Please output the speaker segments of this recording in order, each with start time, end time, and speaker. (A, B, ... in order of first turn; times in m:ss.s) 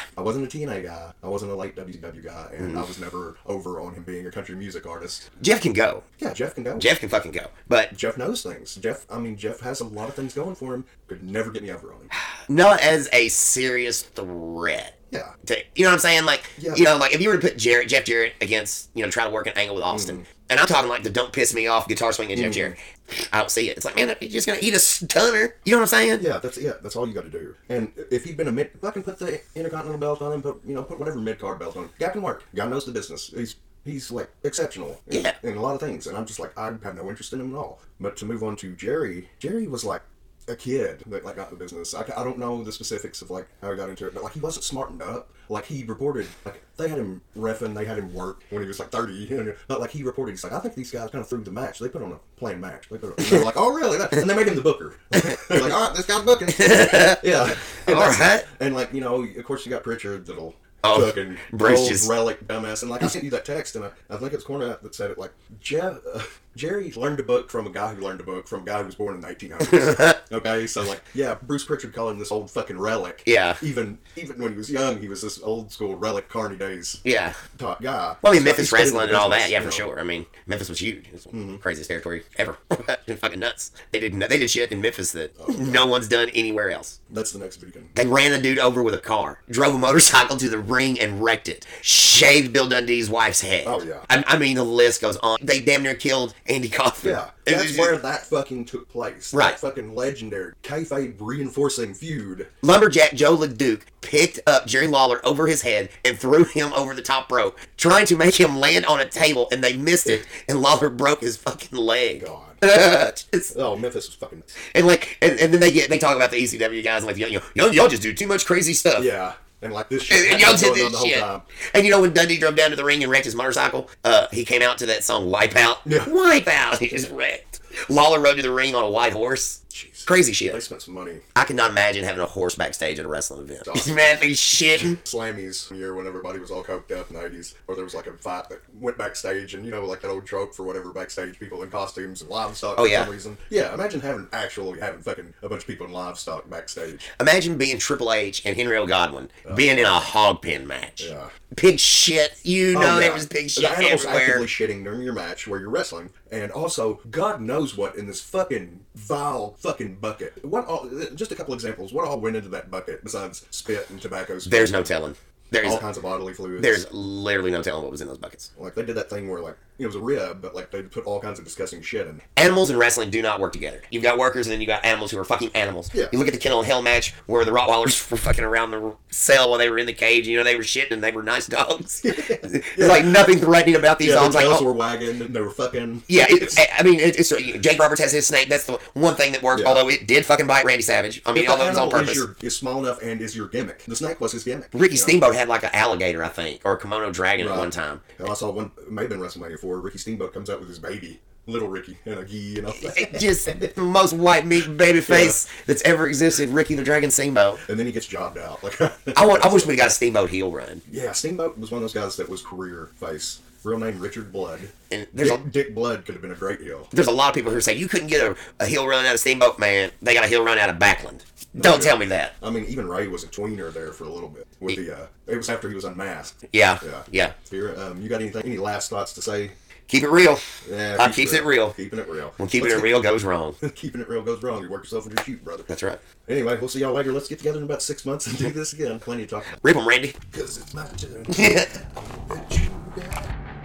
0:00.2-0:05.3 A
0:02.6-0:02.9 B
0:05.4-0:06.0 B
0:06.2-0:06.9 A
0:06.8-0:07.9 B
0:07.9-0:12.1 A
0:12.5-0:26.3 B
0:16.6-0:16.8 A
0:19.9-0:20.2 A
0:22.3-0:22.8 A
0:26.2-1:17.0 A
0:35.1-0:35.4 B
0:55.2-0:55.6 B
0:56.5-0:58.5 B
1:00.8-1:02.1 B
1:09.6-1:10.2 B
1:13.3-1:13.6 B
1:17.0-1:17.4 B
1:17.5-1:19.9 A
1:18.2-1:27.0 B
1:21.3-1:21.6 A
1:25.4-1:25.9 A
1:27.1-1:27.9 A
1:28.0-1:38.0 B
1:33.6-1:34.1 A
1:37.0-1:42.5 A
1:39.3-1:39.6 B
1:42.6-1:53.5 B
1:52.2-1:52.6 A
1:53.5-1:54.5 A
1:54.6-1:59.1 B
1:59.0-2:01.4 A
2:00.1-2:10.6 B
2:05.8-2:06.1 A
2:09.7-2:11.2 A
2:11.4-2:15.0 B
2:13.6-2:14.2 A
2:14.8-2:27.1 A
2:22.8-2:23.1 B
2:27.2-2:34.5 B
2:29.5-2:30.1 A
2:31.0-2:31.3 A
2:32.7-2:44.9 A
2:44.5-2:45.8 B
2:45.6-2:46.8 A
2:46.6-2:48.5 B
2:48.6-2:52.2 A
2:52.4-3:04.7 B
2:55.9-2:56.2 A
3:02.0-3:03.3 A
3:04.0-3:06.6 A
3:06.1-3:12.2 B
3:09.5-3:09.8 A
3:11.3-3:15.2 A
3:14.7-3:18.0 B
3:17.4-3:23.7 A
3:22.8-3:27.6 B
3:25.1-3:25.4 A
3:27.6-3:29.9 A
3:29.1-3:30.8 B
3:30.9-3:36.9 A
3:34.9-3:35.4 B
3:36.9-3:42.3 B
3:41.6-3:49.6 A
3:46.5-3:47.3 B
3:49.9-3:50.4 B
3:50.6-3:52.9 A
3:51.0-3:51.8 B
3:52.4-3:53.6 B
3:53.6-3:55.7 A
3:55.7-3:56.0 B
3:56.2-3:59.6 A
3:59.6-4:00.2 B
4:00.3-4:01.6 A
4:01.3-4:01.8 B
4:02.3-4:03.3 A